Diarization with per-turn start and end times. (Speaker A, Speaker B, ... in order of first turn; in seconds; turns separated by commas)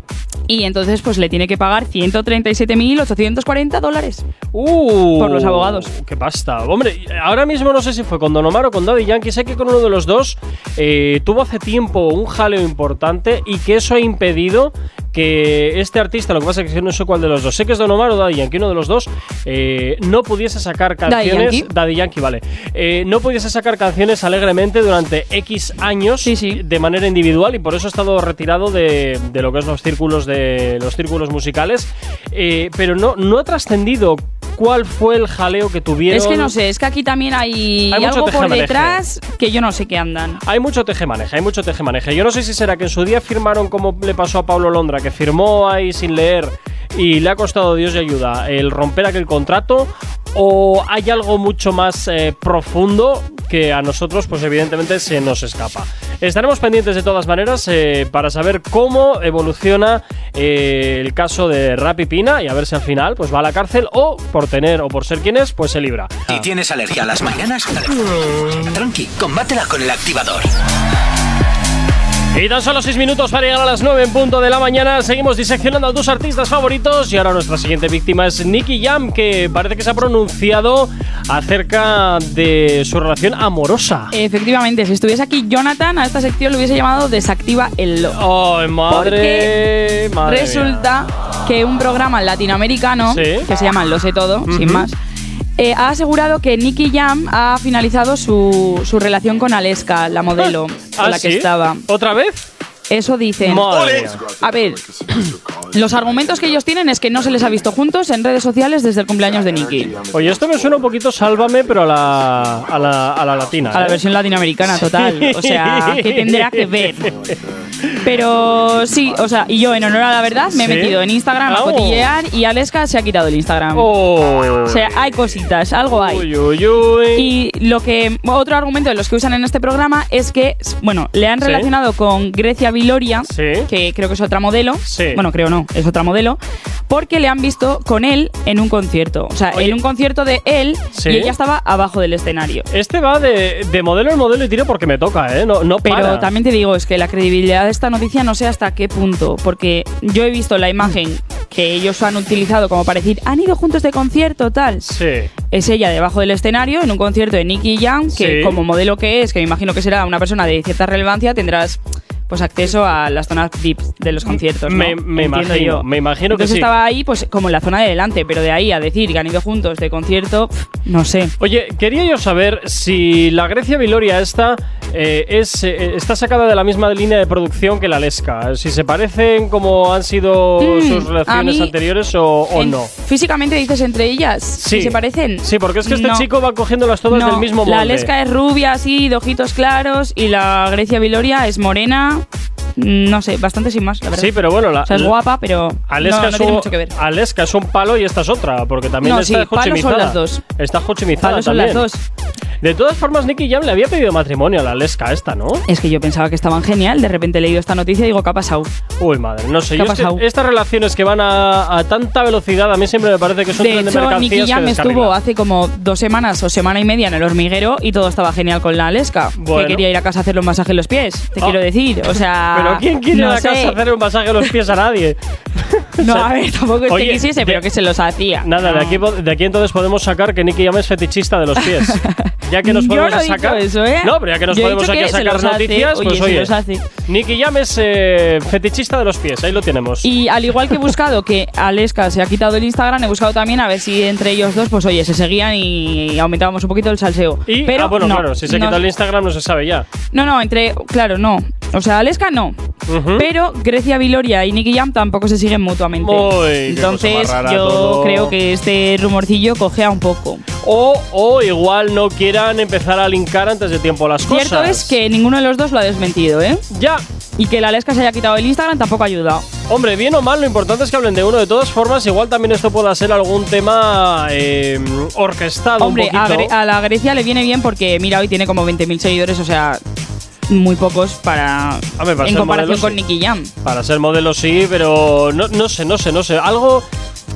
Speaker A: 0.5-4.2, Speaker B: 4.5-36.5, Speaker A: 5.2-5.9, Speaker A: 21.1-21.7, Speaker A: 26.2-26.6, Speaker A: 36.1-40.4, Speaker B: 37.9-39.0, Speaker B: 40.5-66.5, Speaker C: 66.3-70.5, Speaker B: 72.3-84.1, Speaker A: 84.1-88.2, Speaker B: 88.1-90.9, Speaker A: 88.9-89.5, Speaker A: 90.2-95.0, Speaker B: 93.1-93.5, Speaker B: 94.5-94.9, Speaker A: 95.6-101.9, Speaker B: 100.4-102.5, Speaker A: 102.9-104.9, Speaker B: 103.4-104.3, Speaker A: 105.7-110.0, Speaker B: 110.1-114.0, Speaker A: 113.7-117.1, Speaker B: 114.8-118.1, Speaker A: 118.0-123.9, Speaker B: 120.5-122.1, Speaker B: 123.8-125.0, Speaker A: 124.7-126.3, Speaker B: 125.9-127.3, Speaker A: 127.2-142.7, Speaker B: 131.4-131.7, Speaker B: 133.3-133.7, Speaker B: 134.9-135.2, Speaker B: 140.9-141.3, Speaker B: 142.7-146.3, Speaker A: 145.8-154.8, Speaker B: 154.8-155.3, Speaker A: 155.5-171.3, Speaker B: 158.1-158.6, Speaker B: 164.3-166.7, Speaker B: 171.4-182.9, Speaker A: 180.6-181.7, Speaker A: 182.6-186.3, Speaker B: 184.6-188.1, Speaker A: 187.1-192.2, Speaker A: 192.8-194.3, Speaker B: 194.2-195.1, Speaker A: 194.8-196.9, Speaker B: 195.9-201.9, Speaker A: 199.0-200.4, Speaker A: 201.2-202.0, Speaker B: 202.6-205.6, Speaker A: 205.7-208.7, Speaker B: 209.0-215.2, Speaker A: 209.8-210.2, Speaker A: 213.6-223.8, Speaker B: 219.4-219.8, Speaker B: 222.5-226.3, Speaker A: 226.0-229.0, Speaker B: 226.9-227.6, Speaker B: 228.4-236.5, Speaker A: 231.6-236.8, Speaker B: 237.1-240.1, Speaker A: 240.0-248.8, Speaker B: 247.5-249.9, Speaker A: 250.1-252.6, Speaker B: 252.9-253.3, Speaker A: 253.2-260.4, Speaker B: 256.0-258.4, Speaker B: 260.6-264.9, Speaker A: 264.3-266.6, Speaker B: 266.7-267.0, Speaker A: 267.4-269.5, Speaker B: 269.7-276.5, Speaker A: 275.8-279.8, Speaker A: 280.5-283.5, Speaker B: 282.0-283.0, Speaker B: 283.6-286.9